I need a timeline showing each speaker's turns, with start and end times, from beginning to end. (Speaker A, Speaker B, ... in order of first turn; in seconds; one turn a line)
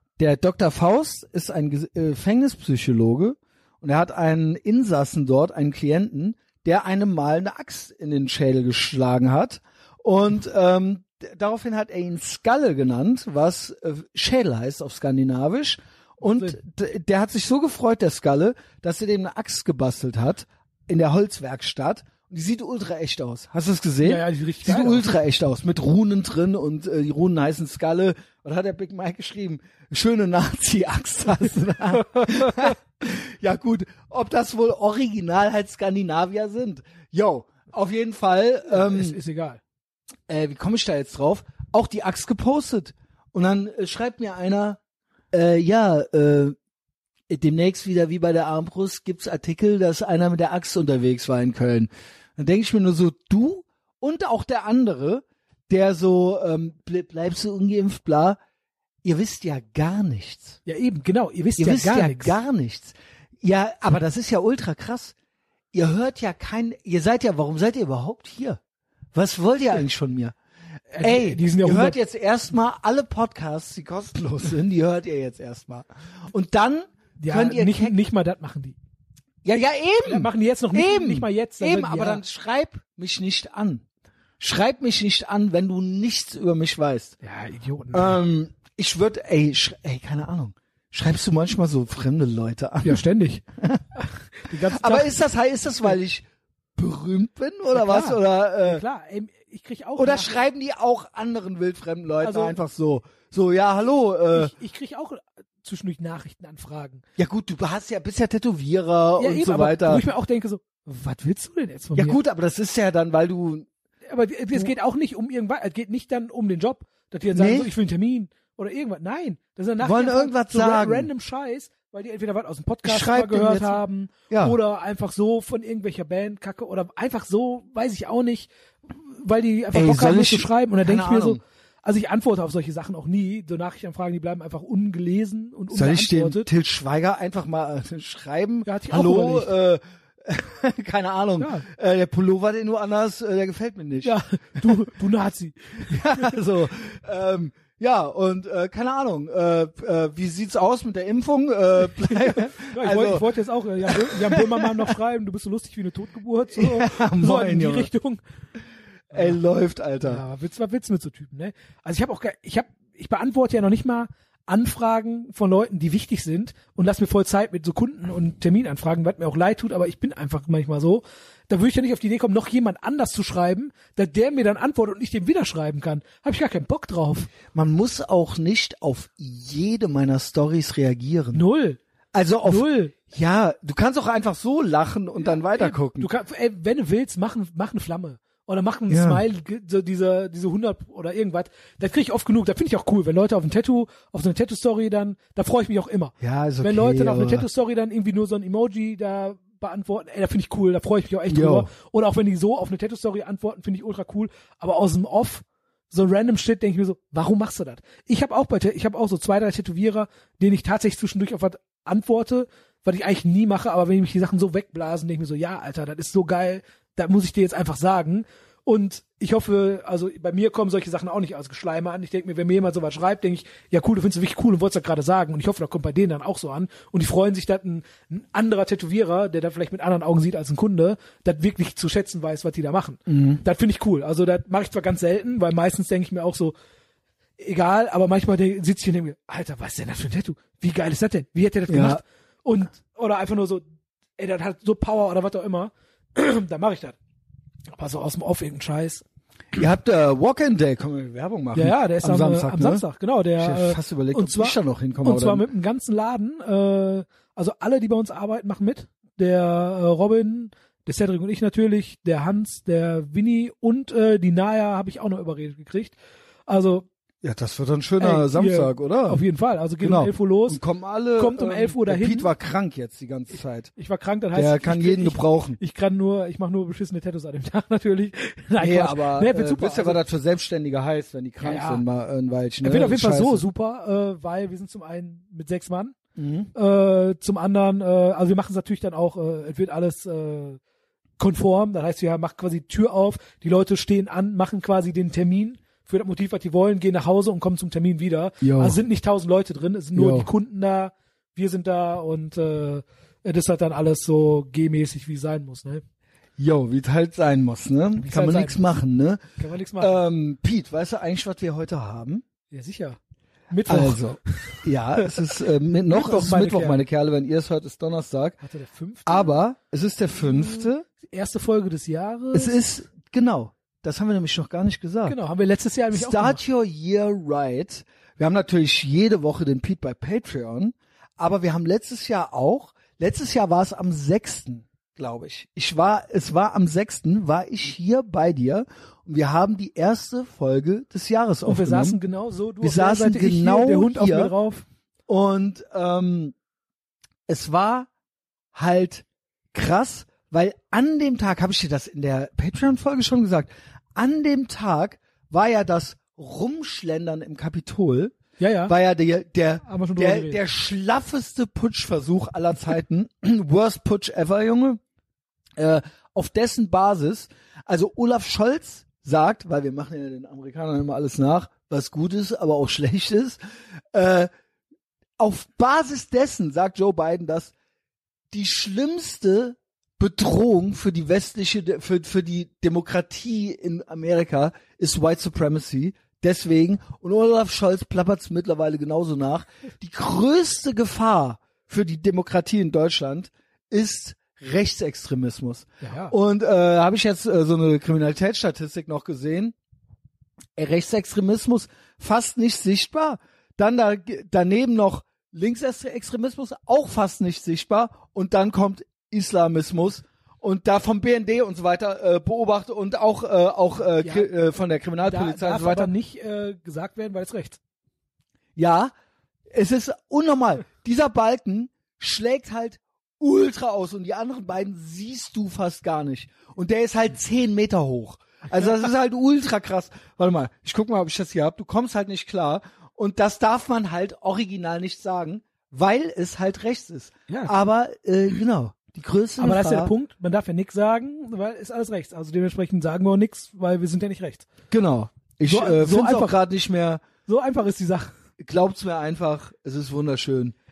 Speaker A: 0.2-39.2
Speaker B: 16.3-16.6
Speaker B: 24.0-25.1
Speaker B: 38.7-39.6
Speaker A: 40.3-44.8
Speaker A: 45.3-46.6
Speaker A: 47.3-58.4
Speaker A: 59.0-60.6
Speaker B: 60.6-62.4
Speaker A: 61.6-65.2
Speaker A: 65.7-68.6
Speaker A: 69.1-70.4
Speaker B: 70.9-72.0
Speaker A: 71.0-78.0
Speaker B: 77.2-78.8
Speaker A: 79.4-83.8
Speaker B: 80.0-82.2
Speaker A: 84.4-87.2
Speaker B: 87.2-88.2
Speaker A: 87.9-93.0
Speaker B: 92.8-93.4
Speaker B: 94.0-95.2
Speaker A: 94.5-98.8
Speaker B: 97.7-100.4
Speaker A: 100.0-104.5
Speaker B: 102.2-102.6
Speaker B: 104.3-107.0
Speaker A: 107.2-110.0
Speaker B: 109.2-112.2
Speaker A: 112.0-113.7
Speaker B: 114.1-136.5
Speaker A: 117.3-117.7
Speaker A: 119.8-121.1
Speaker A: 122.8-124.6
Speaker A: 129.7-131.4
Speaker A: 135.7-144.8
Speaker B: 138.7-139.5
Speaker B: 141.4-141.7
Speaker B: 144.0-146.3
Speaker A: 145.8-153.3
Speaker B: 152.0-158.2
Speaker A: 153.9-154.7
Speaker A: 156.5-157.9
Speaker A: 159.1-160.2
Speaker B: 160.0-177.3
Speaker A: 177.5-181.4
Speaker B: 181.3-181.8
Speaker A: 182.1-186.1
Speaker B: 182.4-182.9
Speaker B: 185.2-236.6
Speaker A: 188.9-189.2
Speaker A: 196.2-197.5
Speaker A: 201.3-201.7
Speaker A: 233.1-233.4
Speaker B: 237.4-243.6
Speaker A: 241.7-242.0
Speaker B: 244.2-247.0
Speaker B: 247.7-249.0
Speaker A: 249.6-252.8
Speaker B: 251.6-265.9
Speaker A: 253.4-255.5
Speaker B: 266.5-266.9
Speaker A: 267.2-269.2
Speaker B: 268.0-270.6
Speaker A: 269.8-273.7
Speaker B: 271.2-272.3
Speaker B: 273.8-280.0
Speaker A: 274.4-275.6
Speaker A: 278.6-283.4
Speaker B: 281.4-281.8
Speaker B: 282.6-286.0
Speaker A: 286.2-286.5
Speaker B: 286.6-290.6
Speaker B: 291.2-305.8
Speaker A: 298.4-298.8
Speaker A: 299.9-300.3
Speaker A: 306.4-309.2
Speaker B: 308.0-308.7
Speaker B: 309.4-310.0
Speaker A: 309.8-312.2
Speaker B: 312.5-313.0
Speaker B: 313.5-315.4
Speaker A: 313.7-318.4
Speaker B: 315.9-316.8
Speaker B: 318.4-319.4
Speaker A: 319.1-320.9
Speaker B: 320.4-322.6
Speaker A: 322.3-325.2
Speaker B: 325.1-326.4
Speaker A: 325.9-342.0
Speaker B: 341.5-344.6
Speaker A: 342.6-344.3
Speaker A: 345.1-346.4
Speaker A: 347.3-347.9
Speaker A: 348.5-358.1
Speaker B: 358.4-358.7
Speaker A: 358.7-364.8
Speaker B: 359.6-360.4
Speaker A: 365.6-373.4
Speaker A: 373.9-374.3
Speaker A: 375.2-377.5
Speaker A: 378.3-399.6
Speaker B: 395.8-396.1
Speaker A: 400.6-415.9
Speaker B: 414.0-414.3
Speaker B: 415.0-417.6
Speaker A: 418.6-418.9
Speaker A: 419.5-439.9
Speaker B: 439.4-444.5
Speaker A: 444.7-447.0
Speaker B: 445.5-446.4
Speaker B: 447.3-448.1
Speaker A: 448.4-450.6